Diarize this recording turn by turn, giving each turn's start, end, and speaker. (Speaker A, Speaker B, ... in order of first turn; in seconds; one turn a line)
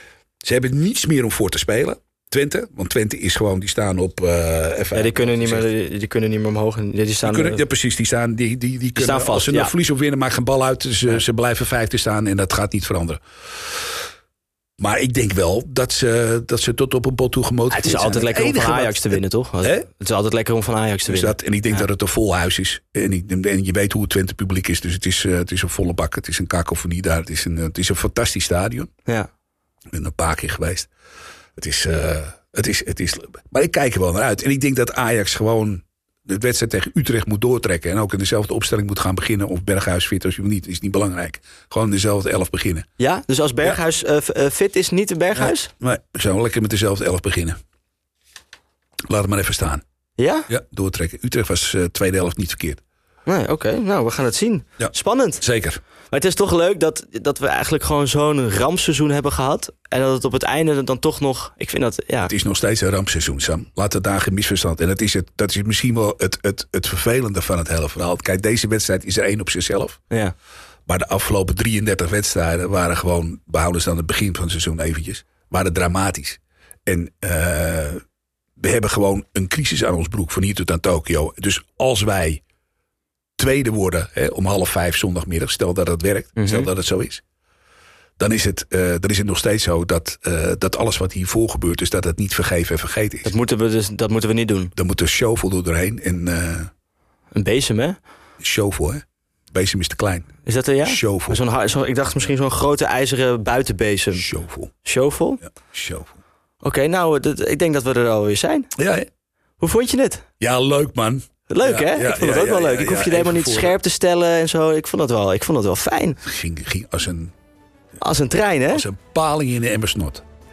Speaker A: 0.4-5.7
Speaker B: 4.9-7.6
Speaker A: 7.2-13.8
Speaker B: 9.0-9.7
Speaker A: 14.8-19.8
Speaker B: 17.7-21.9
Speaker A: 21.1-28.9
Speaker A: 29.9-30.9
Speaker A: 31.6-42.9
Speaker B: 43.0-45.7
Speaker A: 45.4-47.6
Speaker A: 49.1-49.8
Speaker B: 50.2-50.5
Speaker A: 50.5-52.8
Speaker B: 53.3-55.4
Speaker A: 54.8-55.8
Speaker B: 56.1-62.3
Speaker A: 62.3-70.0
Speaker A: 70.9-78.0
Speaker A: 78.6-82.4
Speaker A: 83.4-87.2
Speaker B: 86.4-86.7
Speaker A: 88.2-93.3
Speaker B: 93.2-94.7
Speaker A: 94.8-96.7
Speaker B: 97.3-98.0
Speaker A: 98.4-100.3
Speaker B: 100.5-104.3
Speaker A: 100.8-101.4
Speaker A: 104.1-104.7
Speaker B: 104.8-105.4
Speaker A: 105.4-106.2
Speaker B: 106.6-108.7
Speaker A: 108.8-109.1
Speaker B: 109.6-110.3
Speaker A: 110.4-113.8
Speaker B: 111.5-116.2
Speaker A: 116.2-117.3
Speaker B: 118.0-118.9
Speaker A: 118.7-120.2